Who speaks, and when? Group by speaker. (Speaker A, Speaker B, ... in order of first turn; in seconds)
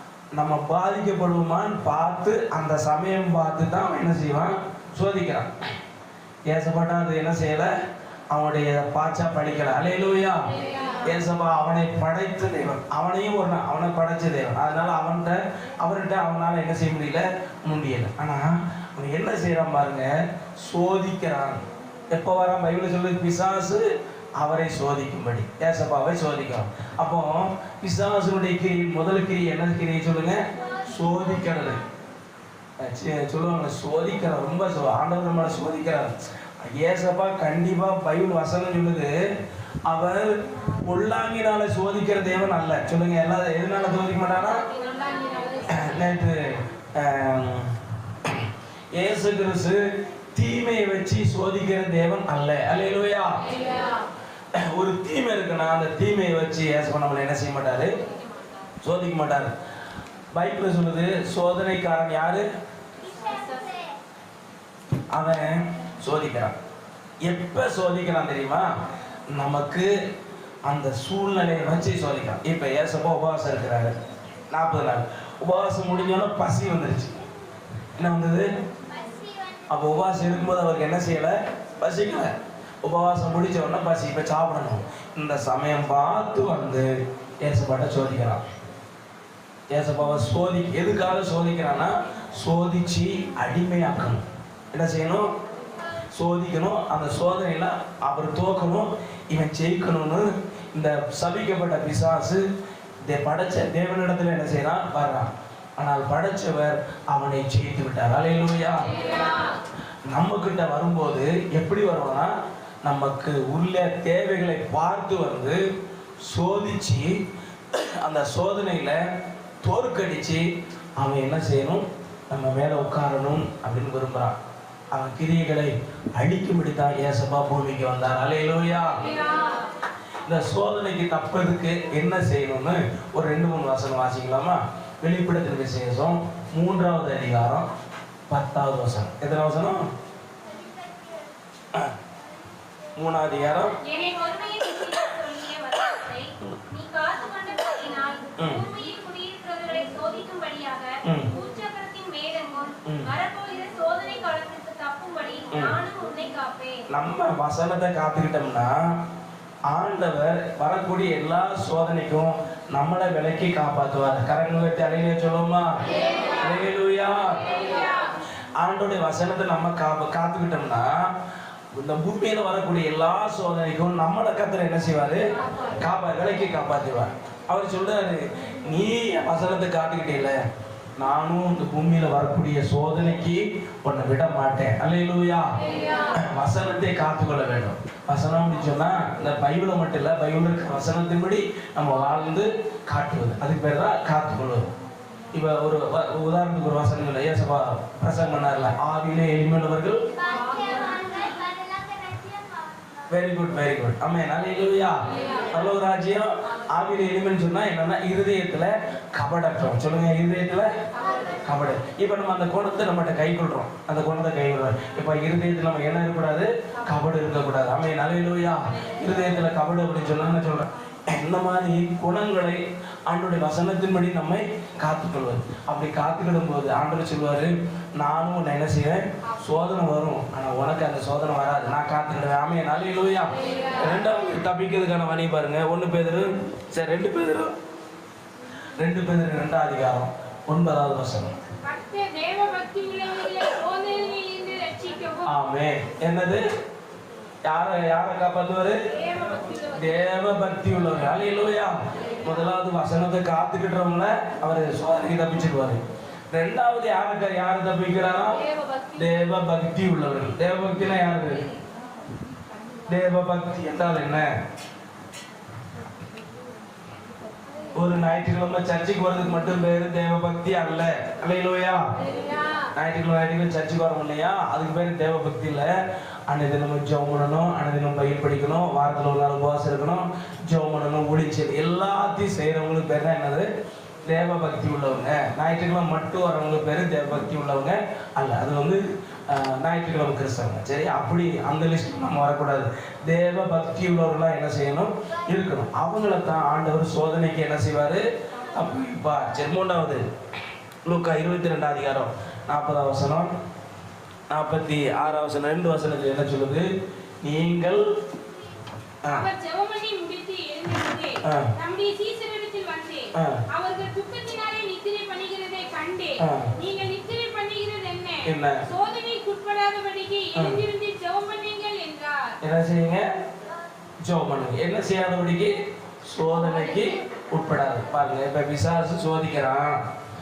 Speaker A: 0.3-5.5, 6.5-7.7, 8.3-10.5, 11.0-31.8, 32.8-39.3, 39.9-44.6, 45.6-53.5, 54.5-57.9, 58.8-59.5, 60.3-62.5, 65.1-66.5, 67.2-68.7, 69.3-69.9, 70.7-74.0, 74.5-77.1, 78.0-78.5, 79.7-86.9, 87.4-88.4, 89.7-95.3, 96.1-102.5, 103.0-108.9, 110.1-112.3, 112.8-115.6, 116.2-117.2, 117.7-119.0, 119.6-120.5, 121.0-124.4, 124.9-129.0, 130.2-137.7, 138.3-139.9, 142.9-143.8, 148.4-148.6, 151.0-151.3, 152.8-153.1, 155.5-155.8, 156.9-159.1, 159.7-165.8, 166.4-167.7, 168.6-171.2, 171.7-175.3, 175.8-180.4, 181.0-185.6, 186.1-194.7, 195.3-200.1, 203.1-210.7, 211.4-237.6, 238.8-241.3, 245.2-246.4, 247.4-248.8, 249.7-255.8, 256.3-258.4, 258.9-261.5, 262.9-264.3, 267.7-271.8, 272.7-275.7, 276.3-283.5, 284.1-300.0, 300.8-303.3, 304.3-306.7, 307.2-307.9, 311.2-311.5, 313.1-313.4, 316.2-316.5, 318.2-318.6, 320.3-320.6, 322.4-323.1, 324.0-329.8
Speaker B: 44.7-45.6, 200.6-201.0, 241.6-245.3, 248.9-249.9, 258.6-258.9, 309.1-322.3
Speaker C: 143.8-156.8